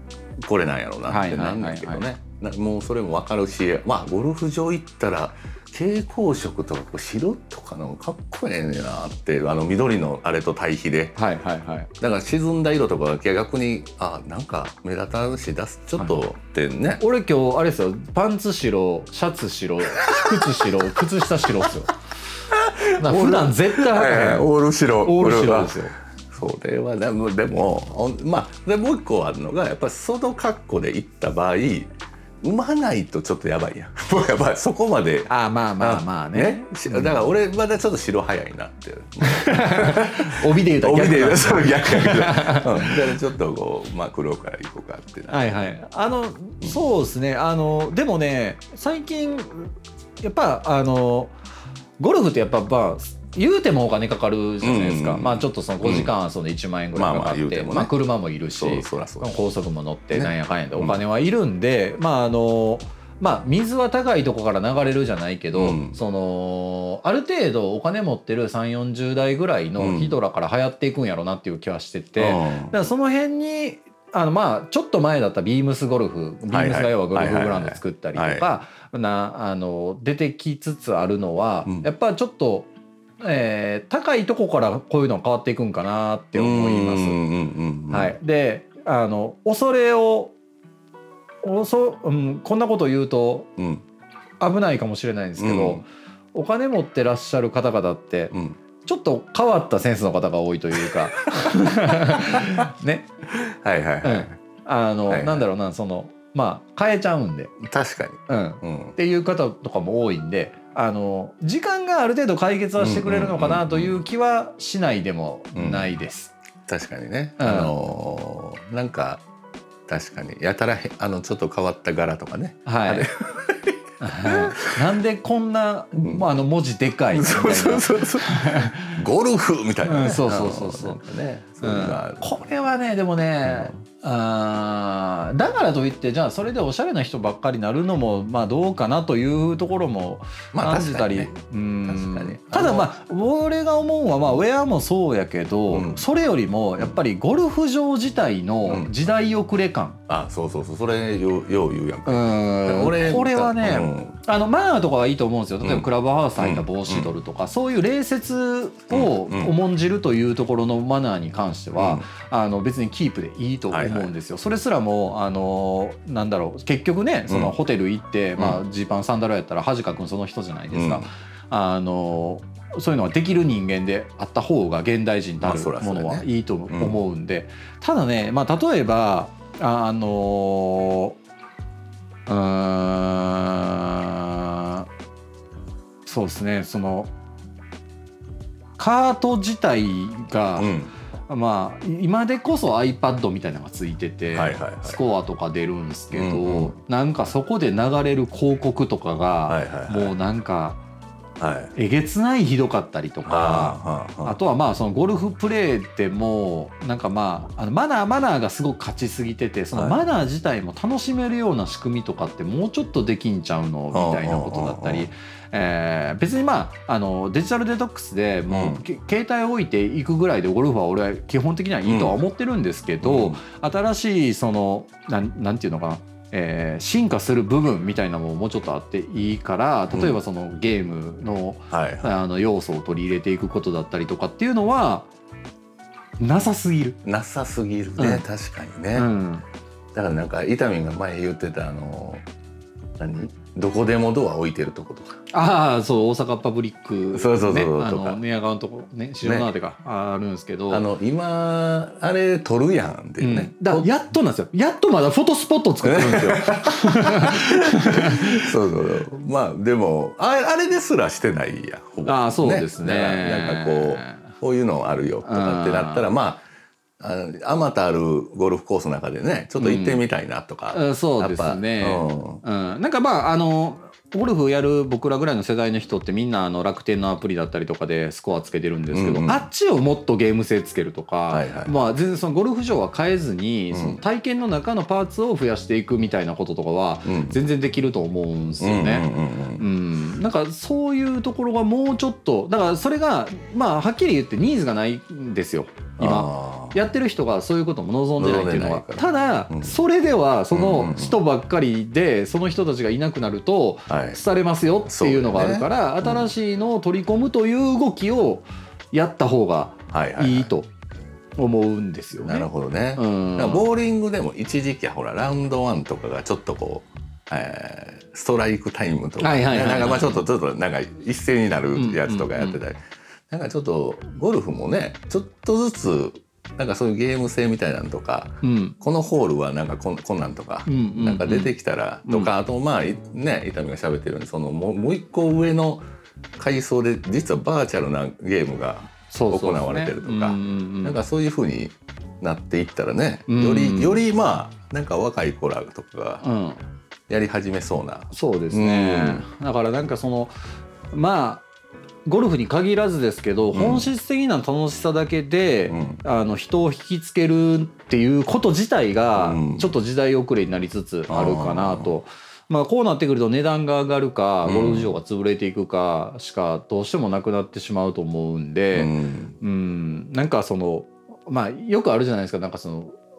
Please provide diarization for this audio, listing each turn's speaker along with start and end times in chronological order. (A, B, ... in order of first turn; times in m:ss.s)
0:00.4-0:11.2 A
0:01.1-0:02.0 B
0:11.2-0:11.9 B
0:12.0-0:17.0 A
0:17.0-0:21.9 B
0:20.1-0:20.4 A
0:22.5-0:45.6 A
0:23.0-0:24.5 B
0:25.0-0:25.9 B
0:35.3-0:37.3 B
0:39.2-0:43.0 B
0:45.3-0:51.3 B
0:52.0-1:22.7 B
0:54.6-0:56.1 A
0:56.9-0:57.9 A
0:58.5-0:59.4 A
1:00.1-1:01.0 A
1:05.6-1:06.0 A
1:09.8-1:10.2 A
1:12.2-1:12.8 A
1:16.5-1:18.4 A
1:23.2-1:27.2 B
1:26.3-1:28.2 A
1:27.9-1:30.3 B
1:31.4-1:33.5 B
1:33.6-1:33.8 A
1:34.4-1:43.1 B
1:35.4-1:35.8 A
1:38.3-1:38.6 A
1:42.3-1:42.6 A
1:43.3-1:44.4 A
1:44.0-1:47.5 B
1:45.1-1:45.4 A
1:47.6-1:49.0 A
1:48.3-1:56.3 B
1:52.8-1:54.0 A
1:55.5-1:55.9 A
1:56.7-1:59.2 A
1:57.4-1:57.7 B
1:59.9-2:04.8 A
2:02.6-2:03.1 B
2:04.0-2:09.0 B
2:06.0-2:06.2 A
2:07.1-2:12.4 A
2:09.8-2:11.0 B
2:11.6-2:30.0 B
2:13.4-2:13.7 A
2:20.5-2:21.3 A
2:21.8-2:23.0 A
2:25.7-2:26.0 A
2:28.6-2:28.9 A
2:30.1-2:34.2 A
2:32.1-3:01.2 B
2:35.6-2:37.1 A
2:38.9-2:39.5 A
2:41.8-2:42.1 A
2:43.7-2:44.1 A
2:47.3-2:47.5 A
2:50.7-2:51.1 A
2:55.4-2:57.0 A
3:02.3-3:04.9 B
3:06.0-3:07.1 B
3:08.8-3:10.8 B
3:10.6-3:10.9 A
3:11.3-3:20.8 B
3:14.3-3:15.0 A
3:16.1-3:16.7 A
3:19.5-3:20.1 A
3:21.4-3:21.7 A
3:21.7-3:55.1 B
3:23.2-3:24.4 A
3:29.7-3:30.0 A
3:33.9-3:35.1 A
3:38.5-3:38.8 A
3:41.8-3:42.2 A
3:43.0-3:43.4 A
3:49.9-3:50.2 A
3:51.7-3:52.1 A
3:56.2-3:57.0 B
3:57.0-3:59.1 A
3:58.0-3:58.2 B
3:58.9-3:59.4 B
3:59.9-4:02.2 A
4:03.0-4:05.2 A
4:05.3-4:10.8 B
4:07.1-4:08.2 A
4:09.2-4:09.5 A
4:10.7-4:13.9 A
4:13.2-4:18.5 B
4:15.8-4:26.4 A
4:22.0-4:24.3 B
4:25.2-4:26.0 B
4:27.0-4:32.4 A
4:29.6-4:30.0 B
4:30.7-5:10.7 B
4:38.9-4:39.5 A
4:41.3-4:41.7 A
4:43.7-4:44.0 A
4:47.0-4:47.4 A
4:48.6-4:49.6 A
4:56.0-4:56.8 A
4:58.2-4:59.8 A
5:00.5-5:01.2 A
5:03.9-5:04.2 A
5:04.9-5:06.3 A
5:09.9-5:10.5 A
5:11.4-5:13.6 B
5:12.2-5:35.8 A
5:19.2-5:20.2 B
5:21.7-5:22.6 B
5:28.4-5:28.7 B
5:30.7-5:31.5 B
5:32.0-5:32.3 B
5:36.4-5:46.2 A
5:39.1-5:41.0 B
5:43.3-5:44.0 B
5:46.2-5:46.6 B
5:47.1-5:49.2 A
5:48.1-5:50.3 B
5:50.9-5:51.4 B
5:52.0-6:13.0 B
5:53.5-5:53.9 A
5:55.7-5:56.0 A
5:59.2-5:59.7 A
6:01.1-6:01.9 A
6:04.4-6:04.9 A
6:08.7-6:09.4 A